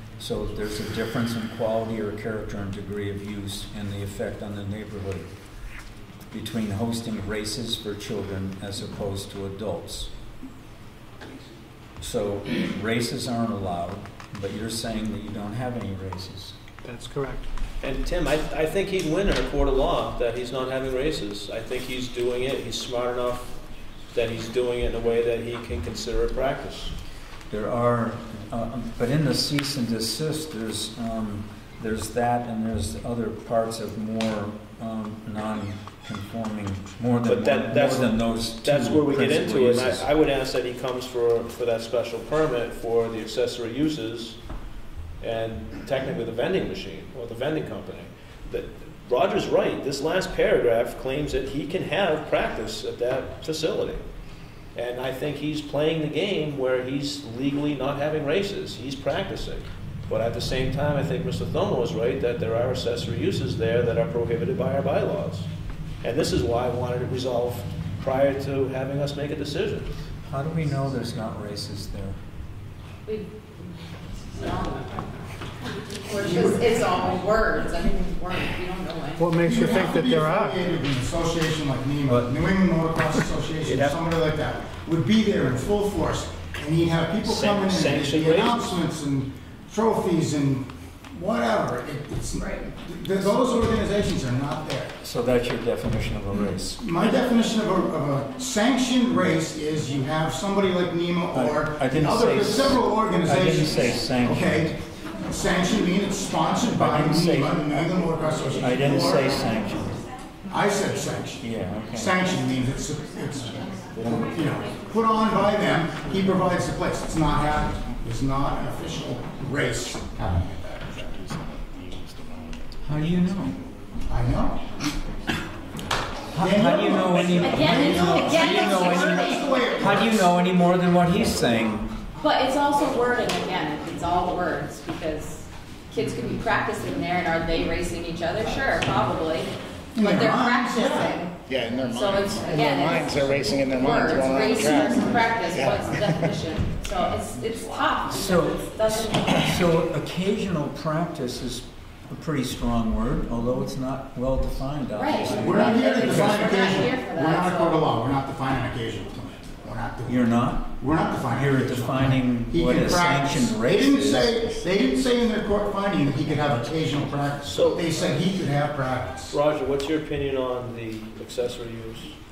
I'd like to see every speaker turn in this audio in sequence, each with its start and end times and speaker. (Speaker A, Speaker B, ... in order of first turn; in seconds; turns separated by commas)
Speaker A: 0.2-5.3, Speaker A: 6.3-10.1, Speaker A: 12.0-16.5, Speaker B: 16.8-17.4, Speaker C: 17.8-23.5, Speaker C: 24.1-26.9, Speaker A: 27.5-40.0, Speaker C: 37.2-44.4, Speaker C: 45.2-54.0, Speaker C: 54.7-65.5, Speaker C: 66.0-69.9, Speaker A: 70.3-72.2, Speaker D: 74.3-75.1, Speaker D: 76.0-79.3, Speaker E: 76.2-76.8, Speaker B: 79.2-80.6, Speaker E: 79.4-94.9, Speaker C: 83.6-84.0, Speaker C: 87.2-88.7, Speaker A: 95.0-96.8, Speaker E: 96.8-109.4, Speaker A: 101.3-104.7, Speaker A: 106.7-107.6, Speaker A: 108.5-110.0, Speaker E: 110.5-121.2, Speaker A: 111.4-112.2, Speaker F: 121.2-122.5, Speaker A: 122.8-123.5, Speaker E: 124.1-124.6, Speaker A: 126.3-131.9, Speaker E: 126.4-130.3, Speaker D: 127.3-129.5, Speaker D: 132.2-141.3, Speaker E: 139.9-141.3, Speaker F: 141.5-146.3, Speaker D: 141.9-149.4, Speaker F: 147.5-147.9, Speaker A: 148.1-156.3, Speaker D: 154.9-157.8, Speaker E: 155.2-169.3, Speaker A: 160.1-160.7, Speaker A: 161.3-164.4, Speaker C: 167.4-167.9, Speaker C: 169.3-172.1